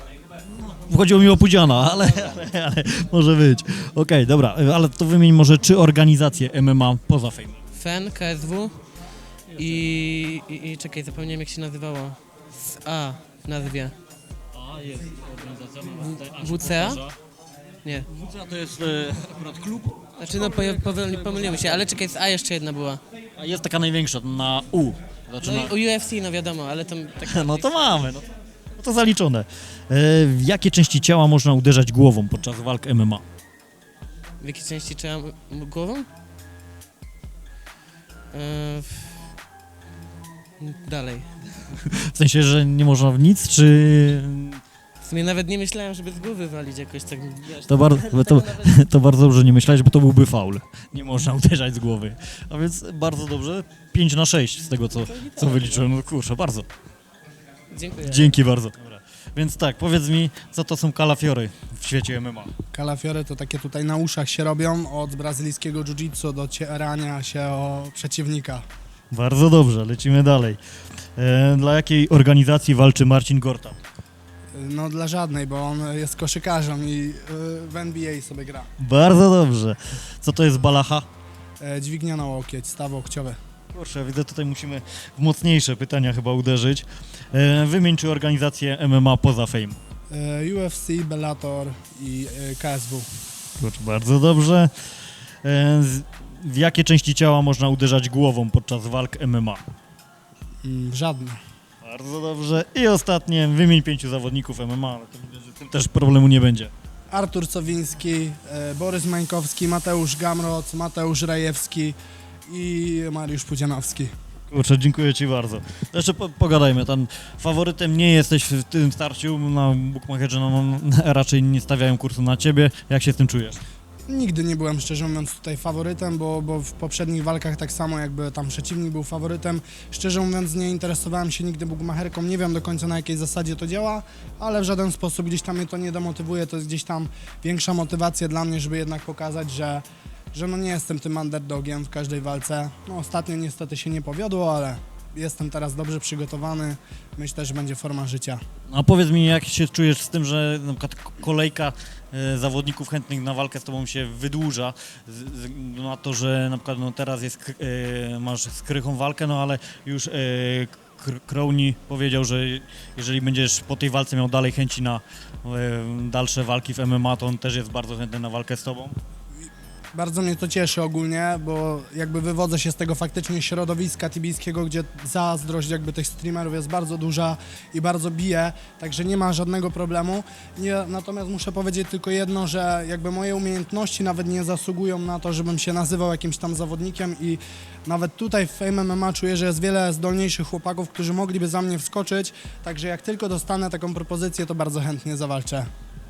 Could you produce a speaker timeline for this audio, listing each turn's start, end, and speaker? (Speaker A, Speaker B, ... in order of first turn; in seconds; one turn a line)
Speaker A: 0.5-7.6
Speaker B: 7.7-8.8
Speaker B: 9.5-13.9
Speaker A: 14.6-17.1
Speaker B: 16.0-17.0
Speaker A: 18.1-21.1
Speaker B: 20.2-23.0
Speaker A: 23.4-25.8
Speaker B: 25.4-27.9
Speaker A: 27.3-28.2
Speaker A: 28.8-33.2
Speaker B: 34.4-36.1
Speaker B: 38.3-39.2
Speaker B: 40.6-41.3
Speaker A: 42.0-44.6
Speaker B: 45.0-48.7
Speaker A: 47.7-56.7
Speaker B: 55.0-55.8
Speaker B: 57.7-58.3
Speaker A: 58.0-62.5
Speaker C: 62.7-68.6
Speaker A: 69.1-70.6
Speaker A: 71.2-73.8
Speaker C: 74.5-78.7
Speaker A: 78.8-81.1
Speaker C: 81.6-83.4
Speaker A: 83.7-89.8
Speaker C: 90.1-93.1
Speaker A: 93.6-94.7
Speaker A: 95.4-99.6
Speaker C: 100.6-101.4
Speaker A: 101.8-106.7
Speaker C: 107.1-112.0
Speaker C: 112.5-114.1
Speaker A: 114.5-123.6
Speaker C: 124.1-148.4
Speaker A: 148.7-168.9
Speaker C: 169.9-195.7